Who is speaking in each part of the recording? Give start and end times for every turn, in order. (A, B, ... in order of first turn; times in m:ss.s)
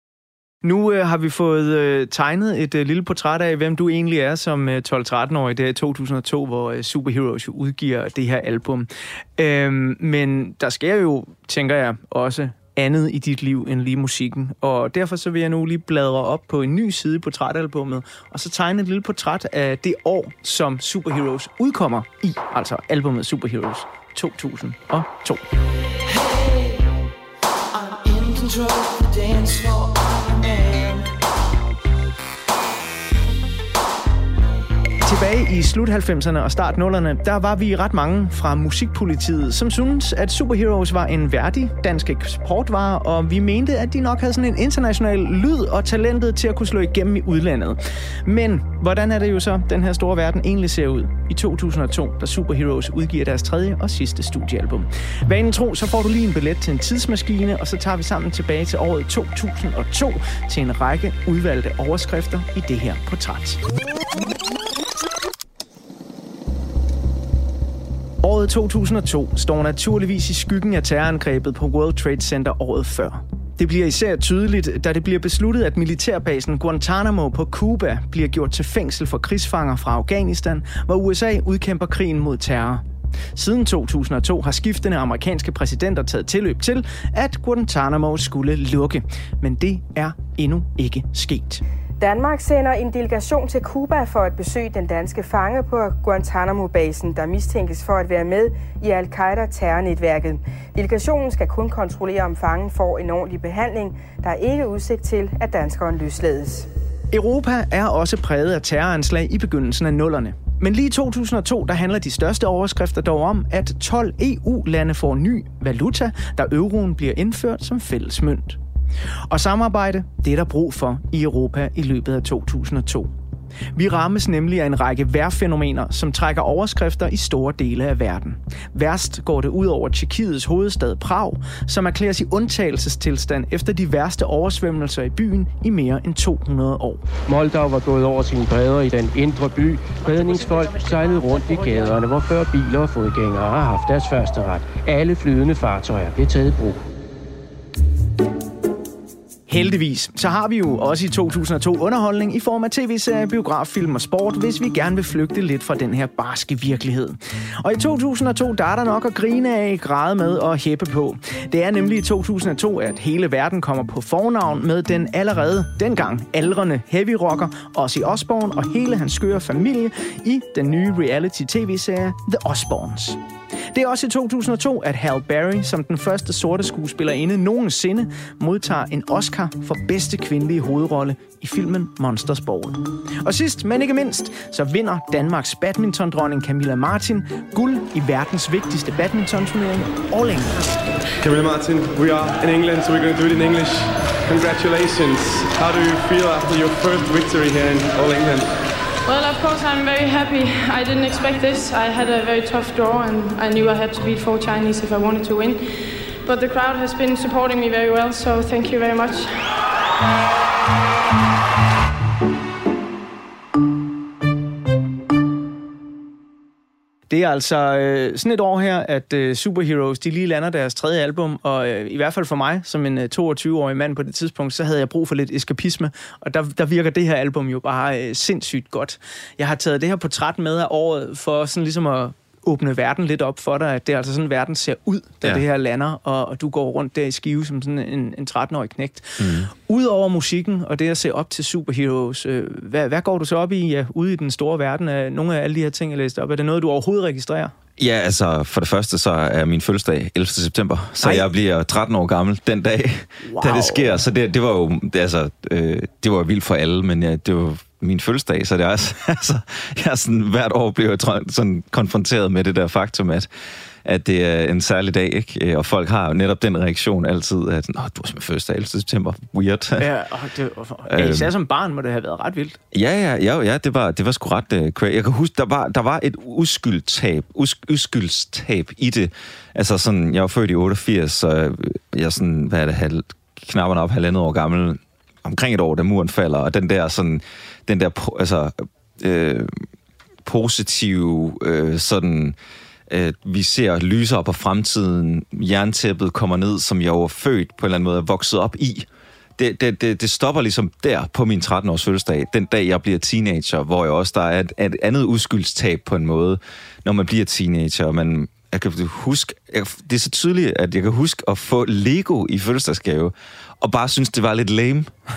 0:00.6-0:25.4 A
0:26.1-0:26.8 B
0:27.7-0:31.1 B
0:35.0-1:03.6 A
1:08.2-1:22.8 A
1:23.4-1:31.6 A
1:32.0-1:46.7 C
1:47.1-1:58.6 A
1:59.3-2:03.1 A
2:03.8-2:17.0 A
2:17.3-2:26.8 D
2:21.0-2:21.7 B
2:29.5-2:53.2 A
2:53.7-3:10.8 A
3:11.2-3:18.6 E
3:19.0-3:29.5 F
3:37.1-4:07.5 A
3:59.2-3:59.5 G
4:07.8-4:23.3 G
4:11.0-4:11.3 A
4:13.2-4:14.0 A
4:23.8-4:29.9 G
4:29.8-4:32.6 A
4:30.9-4:31.3 G
4:32.7-4:49.6 G
4:50.2-4:52.4 G
4:52.9-5:14.9 G